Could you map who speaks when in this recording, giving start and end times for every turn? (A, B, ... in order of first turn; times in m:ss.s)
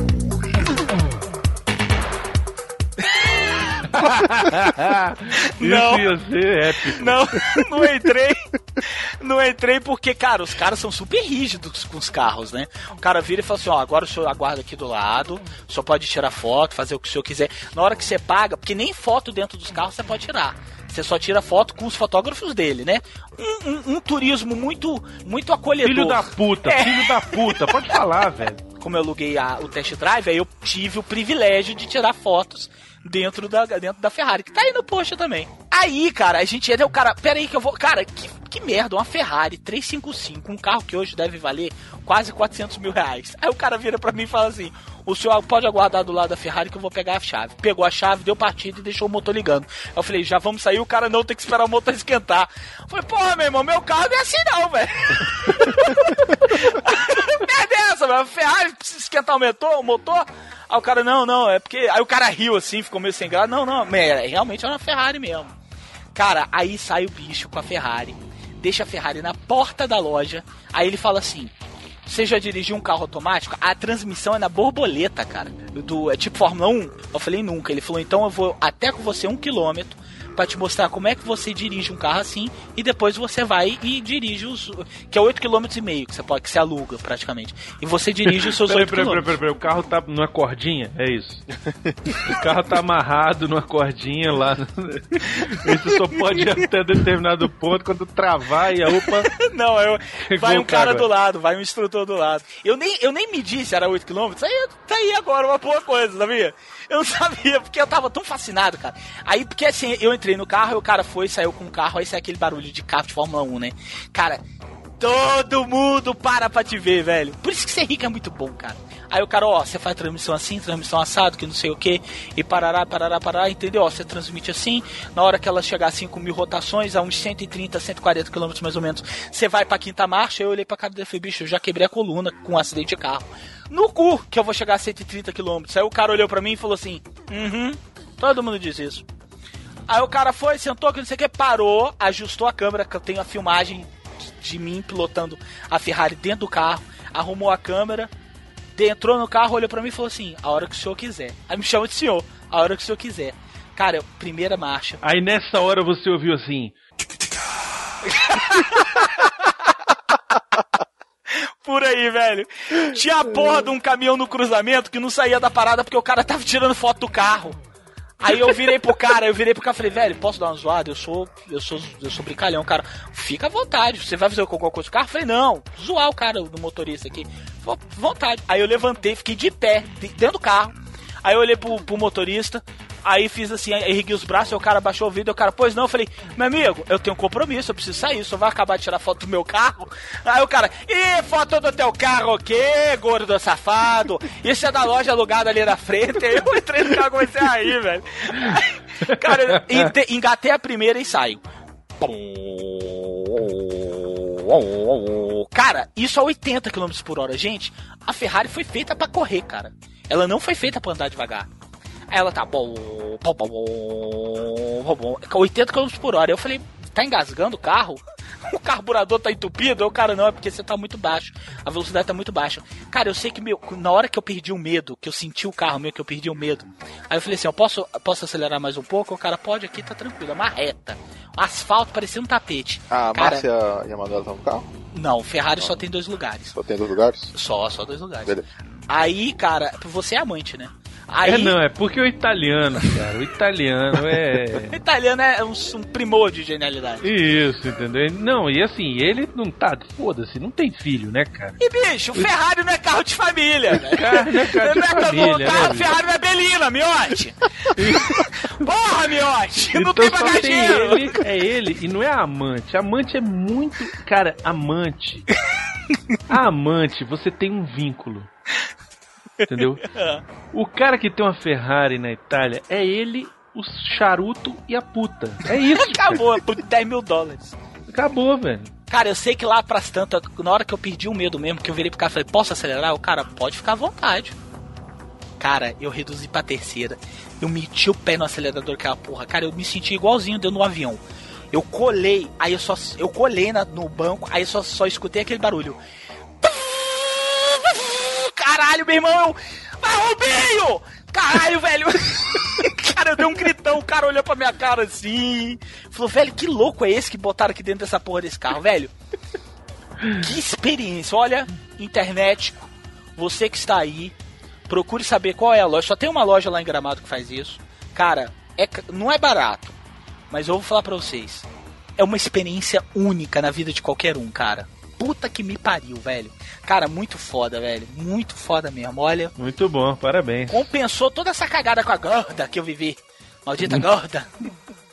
0:03.1-0:04.6 A
0:03.9-0:07.6 B
0:05.3-0:06.1 A
0:06.8-0:27.7 A
0:25.8-0:28.6 B
0:28.8-1:05.5 A
1:06.1-1:11.5 A
1:12.1-1:29.3 A
1:28.3-1:31.5 B
1:32.2-1:39.3 B
1:38.9-1:54.4 A
1:40.3-1:41.1 B
1:55.0-2:19.1 A
2:19.9-2:28.1 A
2:28.8-2:35.0 A
2:35.0-2:36.7 B
2:38.1-2:39.5 A
2:41.3-2:47.6 A
2:48.2-3:21.4 A
3:19.1-3:19.9 B
3:22.0-3:31.5 A
3:32.1-3:53.4 A
3:52.9-3:54.7 C
3:54.9-3:56.6 A
3:56.6-3:57.4 C
3:57.4-3:58.4 A
3:58.9-4:01.6 A
4:01.2-4:04.8 B
4:04.7-4:07.1 A
4:07.0-4:11.6 B
4:11.6-4:21.2 A
4:13.8-4:16.0 B
4:17.8-4:18.3 B
4:19.7-4:25.3 B
4:26.3-4:28.3 B
4:29.4-4:30.2 A
4:29.5-4:29.8 B
4:30.5-4:36.2 B
4:35.7-4:37.6 A
4:37.9-4:38.7 B
4:38.9-4:44.4 A
4:45.4-4:55.8 A
4:56.4-5:08.9 A
5:10.2-5:14.2 A
5:14.7-5:19.8 A
5:20.3-5:21.5 A
5:22.0-5:29.3 A
5:29.4-5:30.7 B
5:30.5-5:34.3 A